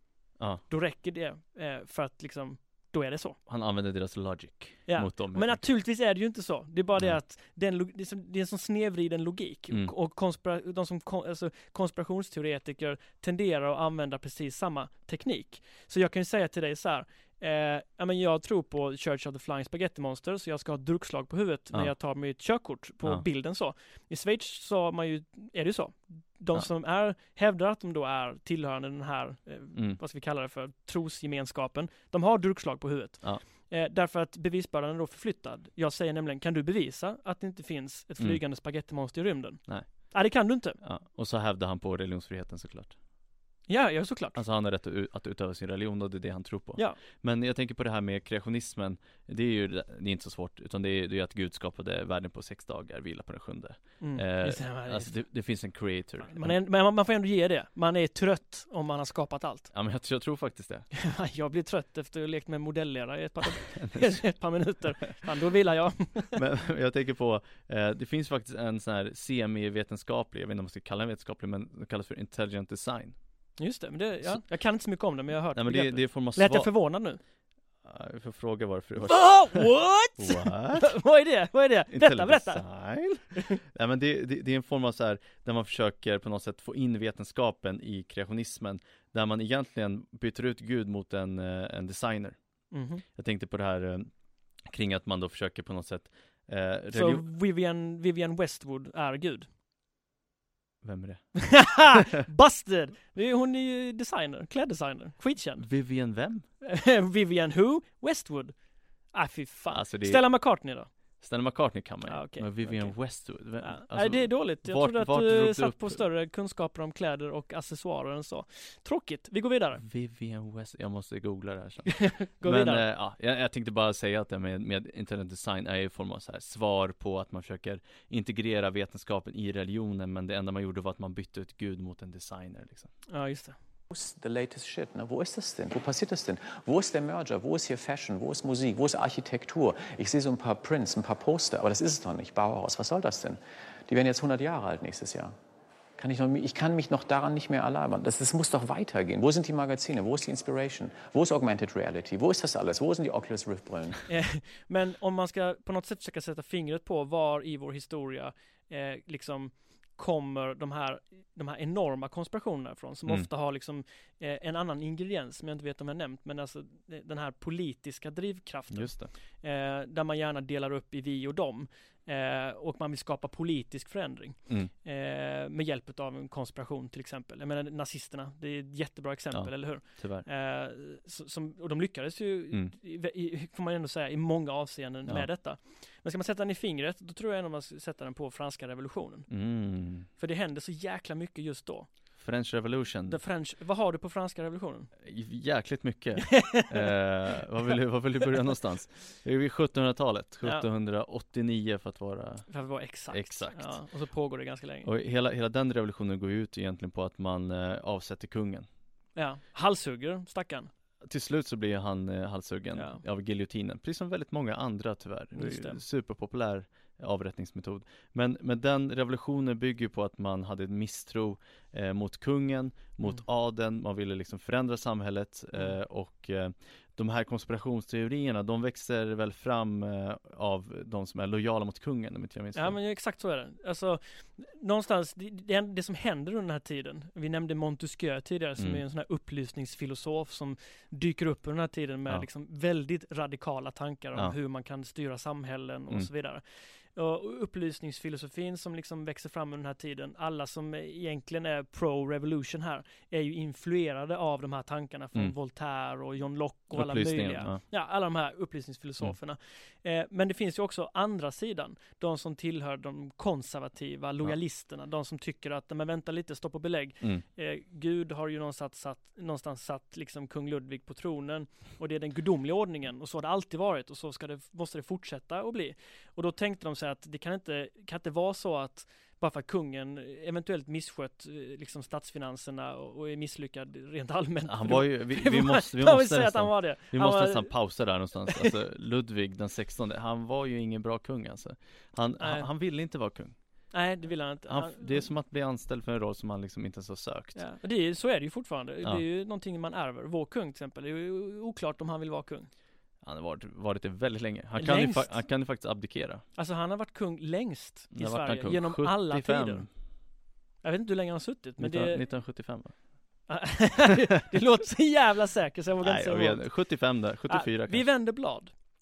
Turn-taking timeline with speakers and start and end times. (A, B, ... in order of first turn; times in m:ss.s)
0:00.7-0:03.4 A
0:03.5-0:05.7 B
0:04.9-0:40.8 A
0:29.7-0:30.0 B
0:39.7-0:40.1 B
0:40.8-0:43.0 B
0:43.7-0:44.4 A
0:44.3-0:56.5 B
0:54.0-0:55.2 A
0:56.2-0:59.7 A
0:59.7-1:00.9 B
1:00.9-1:06.4 A
1:03.5-1:04.2 B
1:06.3-1:13.6 B
1:13.6-1:17.2 A
1:15.5-1:16.8 B
1:17.8-1:21.0 B
1:19.0-1:22.7 A
1:21.9-1:32.4 B
1:23.3-1:23.6 A
1:32.7-1:33.0 A
1:33.1-1:34.1 B
1:34.6-1:37.2 B
1:36.9-1:39.5 A
1:40.8-1:42.0 B
1:41.4-1:45.7 A
1:45.6-1:46.4 B
1:46.6-1:48.6 A
1:49.1-1:50.9 A
1:49.7-1:50.3 B
1:51.2-1:56.0 B
1:52.0-1:59.8 A
1:59.8-2:12.9 B
2:01.9-2:02.8 A
2:13.1-2:13.6 A
2:13.9-2:25.3 C
2:26.0-2:34.0 C
2:34.1-3:09.3 A
2:48.7-2:49.1 B
2:59.3-3:00.3 B
3:09.3-3:10.1 B
3:10.2-3:11.9 A
3:12.2-3:13.2 B
3:13.1-3:14.9 A
3:15.0-3:22.5 B
3:16.3-3:16.9 A
3:22.5-3:24.9 A
3:23.1-3:23.8 B
3:24.8-3:28.7 B
3:29.2-3:30.7 A
3:31.0-3:52.8 B
3:32.7-3:33.0 A
3:35.3-3:35.8 A
3:52.5-4:47.6 A
4:16.7-4:17.6 B
4:44.4-4:53.4 B
4:48.3-4:48.5 A
4:52.2-4:52.5 A
4:53.7-4:55.1 A
4:54.5-4:57.4 B
4:57.4-5:02.5 A
5:03.0-5:06.2 B
5:04.6-5:05.2 A
5:06.3-5:09.6 A
5:07.9-5:09.7 B
5:10.6-5:12.0 A
5:11.6-5:12.8 B
5:13.3-5:16.4 A
5:15.8-5:17.8 B
5:17.3-5:18.5 A